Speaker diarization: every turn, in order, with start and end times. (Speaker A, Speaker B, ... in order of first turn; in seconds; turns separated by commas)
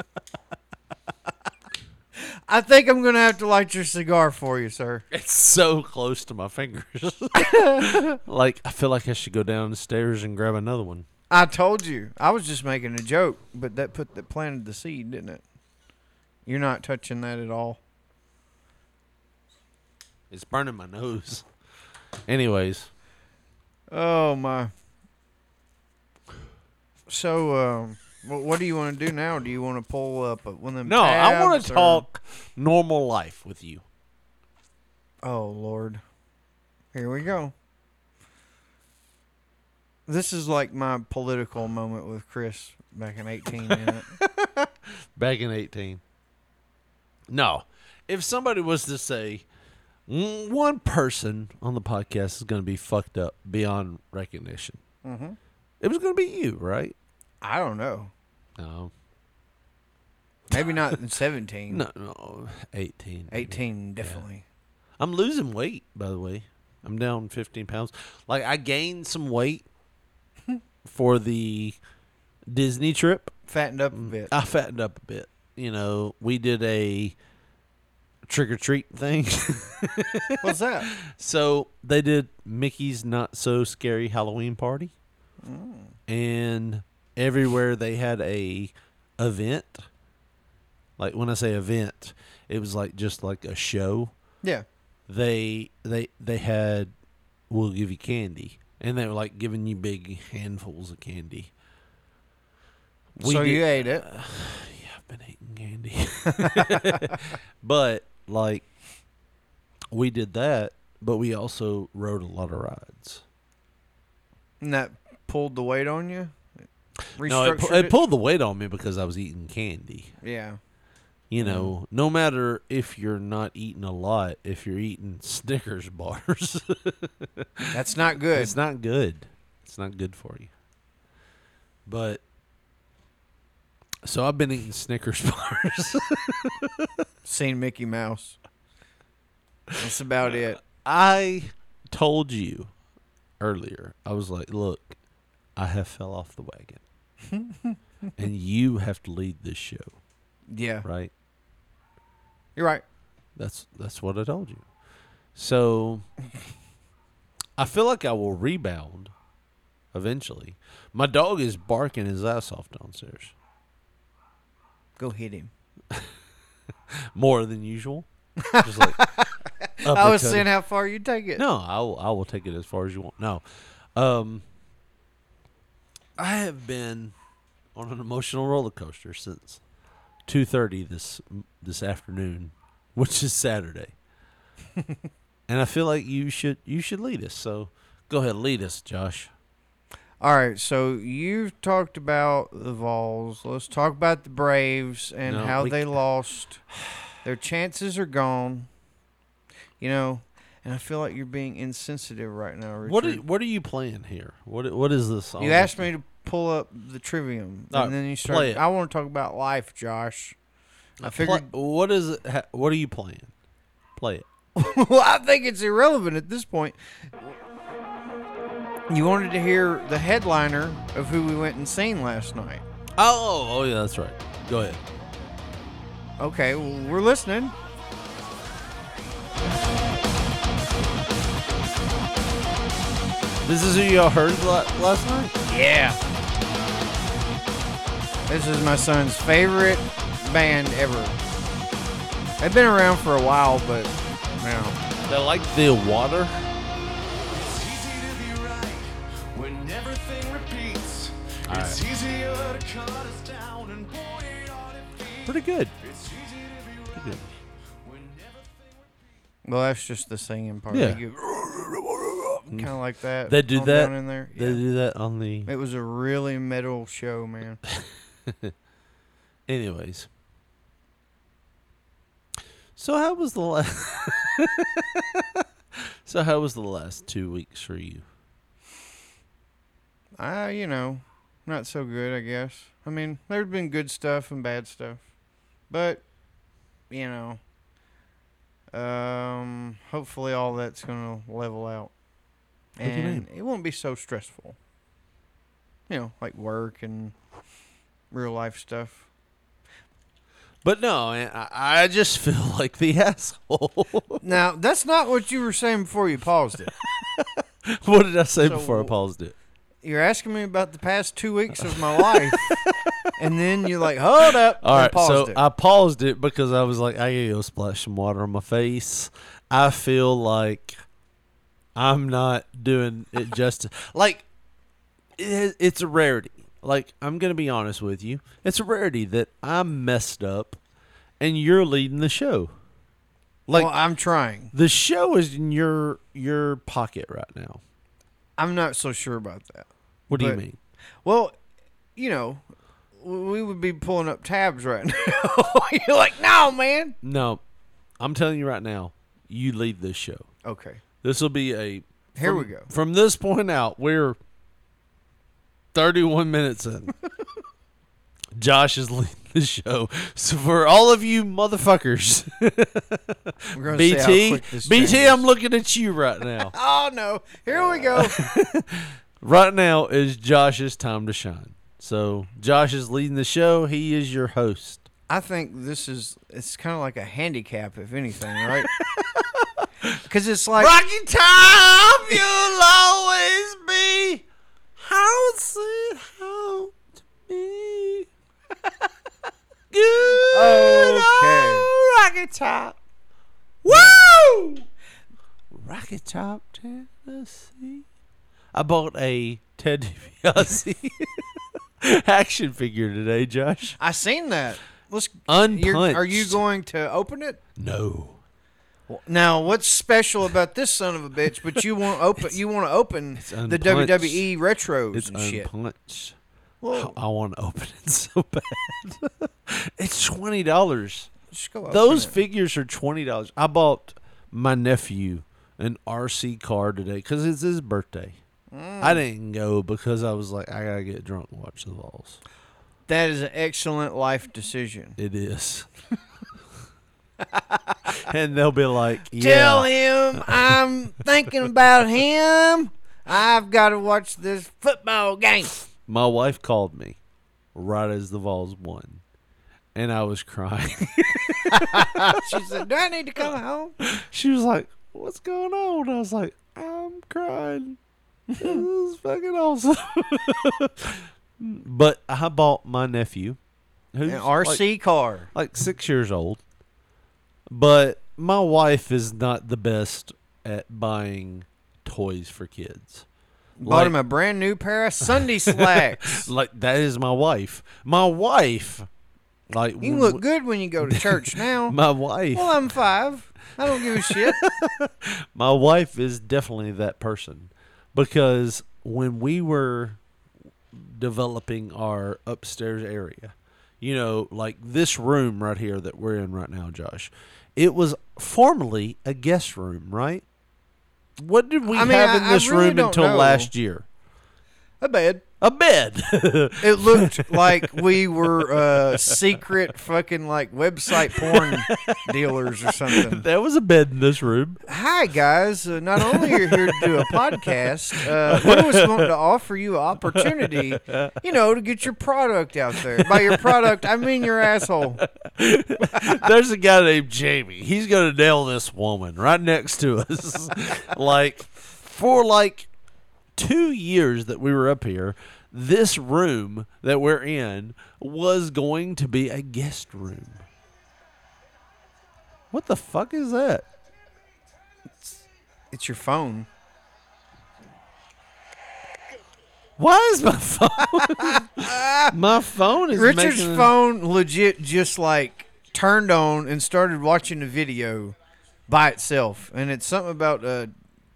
Speaker A: 2.2-5.0, Speaker B: 5.1-11.1, Speaker A: 7.3-8.1, Speaker A: 11.3-15.4, Speaker A: 16.4-17.8, Speaker B: 20.3-21.4, Speaker B: 22.2-22.9, Speaker A: 23.9-24.7, Speaker A: 27.1-32.0, Speaker B: 30.8-33.8, Speaker A: 35.2-36.0, Speaker A: 36.9-37.5, Speaker A: 40.1-44.1, Speaker B: 43.6-46.0, Speaker B: 47.3-49.4, Speaker B: 50.1-54.8, Speaker A: 55.0-55.4, Speaker B: 55.8-56.9, Speaker A: 57.4-58.1, Speaker B: 58.6-58.9, Speaker B: 60.5-61.0, Speaker A: 60.5-61.8, Speaker B: 61.7-64.2, Speaker A: 63.3-64.4, Speaker B: 65.0-69.7, Speaker B: 70.8-71.8, Speaker B: 72.5-73.3, Speaker A: 73.5-74.3, Speaker B: 73.9-77.2, Speaker B: 78.2-84.9, Speaker A: 80.4-80.9, Speaker A: 85.4-85.9, Speaker B: 86.1-89.8, Speaker B: 91.0-94.1, Speaker B: 95.1-96.9, Speaker B: 97.5-101.5, Speaker B: 103.2-108.7, Speaker A: 103.2-104.0, Speaker A: 106.4-107.2, Speaker B: 109.9-113.2, Speaker A: 114.6-116.5, Speaker A: 117.2-118.0, Speaker B: 117.2-120.1, Speaker A: 120.2-120.6, Speaker B: 121.3-130.5, Speaker A: 121.4-121.7, Speaker A: 127.7-128.5, Speaker B: 131.8-132.2, Speaker B: 134.0-136.9, Speaker A: 137.2-138.4, Speaker A: 139.8-140.6, Speaker B: 140.6-142.7, Speaker B: 143.4-144.9, Speaker B: 145.6-146.8, Speaker A: 147.2-147.8, Speaker B: 148.2-150.0, Speaker A: 150.5-150.8, Speaker B: 150.8-151.1, Speaker A: 152.6-152.8, Speaker B: 153.3-154.6, Speaker B: 155.3-156.1, Speaker B: 157.6-159.1, Speaker B: 159.9-163.3, Speaker A: 165.0-165.5, Speaker B: 167.1-169.0, Speaker A: 168.4-171.4, Speaker B: 169.8-170.5, Speaker B: 171.3-173.4, Speaker B: 173.9-174.4, Speaker B: 176.2-177.1, Speaker B: 177.7-179.6, Speaker B: 180.3-183.9, Speaker B: 185.5-189.3, Speaker A: 190.2-196.6, Speaker B: 195.2-195.9, Speaker A: 197.2-198.7, Speaker A: 199.8-203.2, Speaker B: 202.8-205.9, Speaker A: 205.4-210.3, Speaker B: 207.7-208.6, Speaker B: 211.0-213.3, Speaker A: 211.0-211.5, Speaker B: 214.0-214.2, Speaker A: 214.6-217.3, Speaker A: 218.9-222.6, Speaker B: 223.0-224.8, Speaker A: 226.2-227.5, Speaker B: 233.4-235.3, Speaker A: 235.5-236.0, Speaker A: 238.3-241.2, Speaker A: 242.4-244.8, Speaker B: 245.1-246.4, Speaker C: 248.0-248.7, Speaker C: 249.4-250.9, Speaker B: 251.4-251.8, Speaker B: 255.2-255.7, Speaker B: 256.9-257.2, Speaker A: 259.4-261.2, Speaker B: 260.7-265.5, Speaker A: 262.5-264.6, Speaker A: 265.4-267.6, Speaker B: 267.7-268.5, Speaker B: 269.5-270.1, Speaker B: 272.8-275.4, Speaker B: 276.0-278.0, Speaker A: 280.2-285.0, Speaker A: 285.7-286.0, Speaker A: 286.9-287.4, Speaker A: 288.7-291.9, Speaker A: 292.8-294.6, Speaker B: 292.8-293.2, Speaker A: 295.9-297.1, Speaker A: 298.1-299.1, Speaker B: 300.6-304.2, Speaker A: 304.2-306.7, Speaker B: 306.8-309.3, Speaker A: 308.4-308.9, Speaker A: 309.8-312.6, Speaker B: 311.6-313.1, Speaker A: 313.2-315.4, Speaker B: 314.6-320.8, Speaker B: 321.7-324.2, Speaker B: 325.2-330.6, Speaker B: 331.2-332.5, Speaker B: 333.5-333.7, Speaker A: 333.5-334.5, Speaker B: 334.5-337.6, Speaker A: 338.4-340.4, Speaker B: 340.1-340.6, Speaker A: 341.0-341.4, Speaker A: 341.9-342.4, Speaker A: 343.0-346.9, Speaker B: 347.0-347.4, Speaker B: 348.0-350.3, Speaker A: 350.4-350.8, Speaker B: 351.0-354.2, Speaker A: 352.1-352.7, Speaker B: 355.7-356.9, Speaker B: 358.3-366.5, Speaker A: 363.5-365.2, Speaker A: 366.5-368.2, Speaker B: 367.7-374.9, Speaker A: 375.1-378.7, Speaker B: 379.1-379.9, Speaker A: 380.1-380.7, Speaker B: 380.6-384.2, Speaker B: 384.8-388.1, Speaker B: 389.7-392.8, Speaker A: 390.1-391.7, Speaker B: 393.6-394.6, Speaker A: 393.7-394.0, Speaker B: 395.5-397.8, Speaker B: 398.5-401.2, Speaker B: 401.8-403.8, Speaker A: 403.8-407.4, Speaker B: 405.3-406.4, Speaker B: 407.6-408.2, Speaker A: 408.9-415.5, Speaker B: 413.1-414.2, Speaker B: 414.9-416.1, Speaker A: 416.6-416.9, Speaker B: 416.7-421.1, Speaker A: 421.3-422.1, Speaker B: 421.7-428.2, Speaker A: 428.5-429.0, Speaker B: 428.8-432.2, Speaker A: 432.9-435.0, Speaker B: 435.0-435.7, Speaker B: 438.0-440.6, Speaker A: 439.1-445.5, Speaker B: 445.9-447.0, Speaker B: 447.5-449.0, Speaker B: 449.7-452.5, Speaker A: 451.5-453.7, Speaker B: 453.8-457.8, Speaker A: 458.3-458.6, Speaker B: 458.4-463.4, Speaker B: 463.9-464.6, Speaker A: 464.1-465.3, Speaker B: 465.3-466.4, Speaker B: 467.5-473.1, Speaker A: 473.6-476.3, Speaker B: 473.6-473.9, Speaker B: 475.1-478.9, Speaker B: 479.5-480.2, Speaker A: 479.8-481.8, Speaker B: 480.8-482.7, Speaker A: 482.3-484.4, Speaker B: 483.6-490.0, Speaker B: 490.7-500.2, Speaker B: 501.2-503.9, Speaker A: 501.7-503.5, Speaker A: 504.8-505.2, Speaker B: 505.4-509.4, Speaker A: 506.6-513.2, Speaker B: 510.9-514.6, Speaker A: 514.7-525.0, Speaker B: 516.0-519.1, Speaker B: 520.1-521.1, Speaker B: 522.8-532.7, Speaker B: 533.4-540.5, Speaker B: 542.5-543.6, Speaker A: 545.7-546.5, Speaker B: 549.8-553.7, Speaker A: 551.1-552.1, Speaker A: 552.9-558.1, Speaker A: 558.7-560.7